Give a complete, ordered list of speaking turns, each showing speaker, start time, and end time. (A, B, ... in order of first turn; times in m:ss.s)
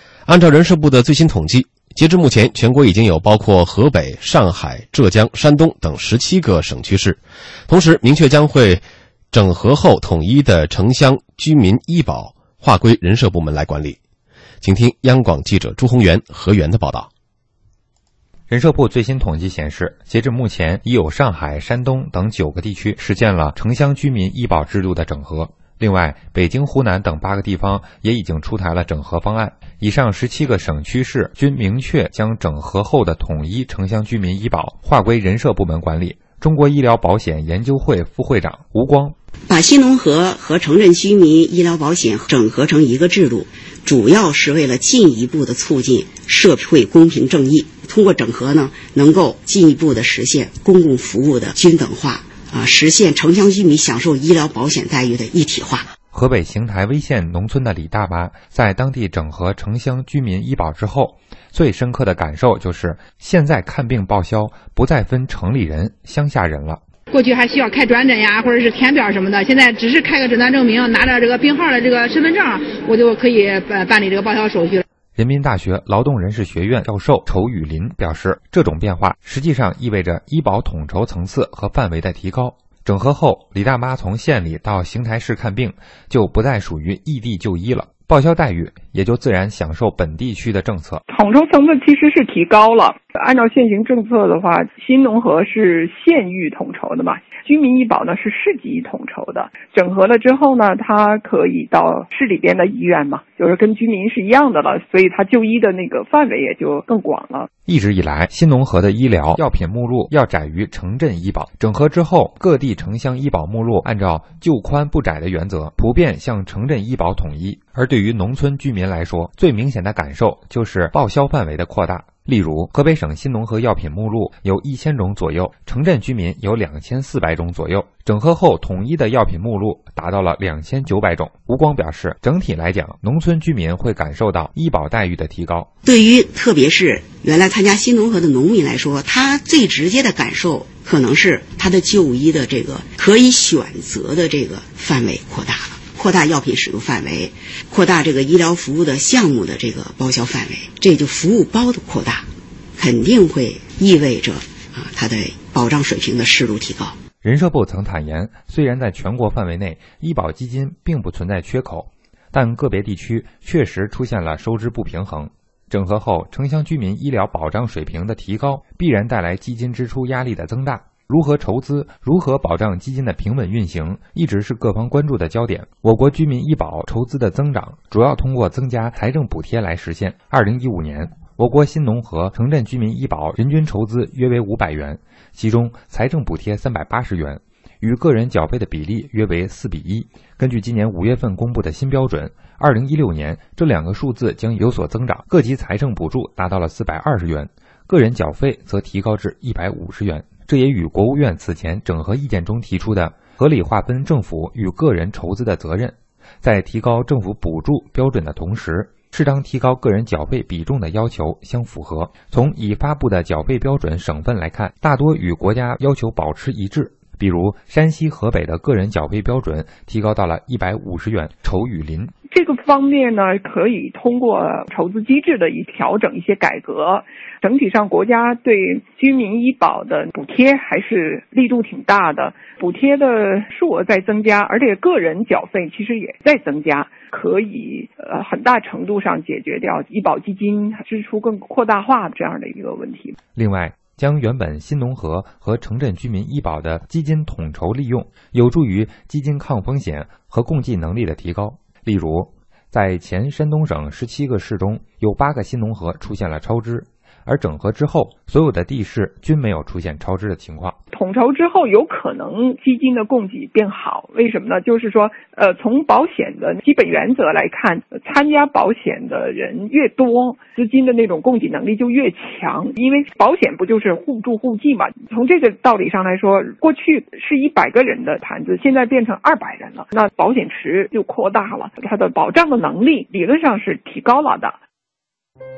0:00.3-0:14.0 A
0:14.6-0:17.1 A
0:18.5-0:39.2 B
0:39.5-0:55.9 C
0:56.1-1:06.8 B
1:07.1-1:14.8 D
1:15.2-1:31.0 B
1:31.1-1:47.5 E
1:47.7-2:15.7 B
2:15.8-2:32.2 C
2:32.8-2:37.0 C
2:37.2-3:42.1 B
3:42.3-4:03.2 E
4:03.4-4:20.8 B
4:20.9-4:44.6 E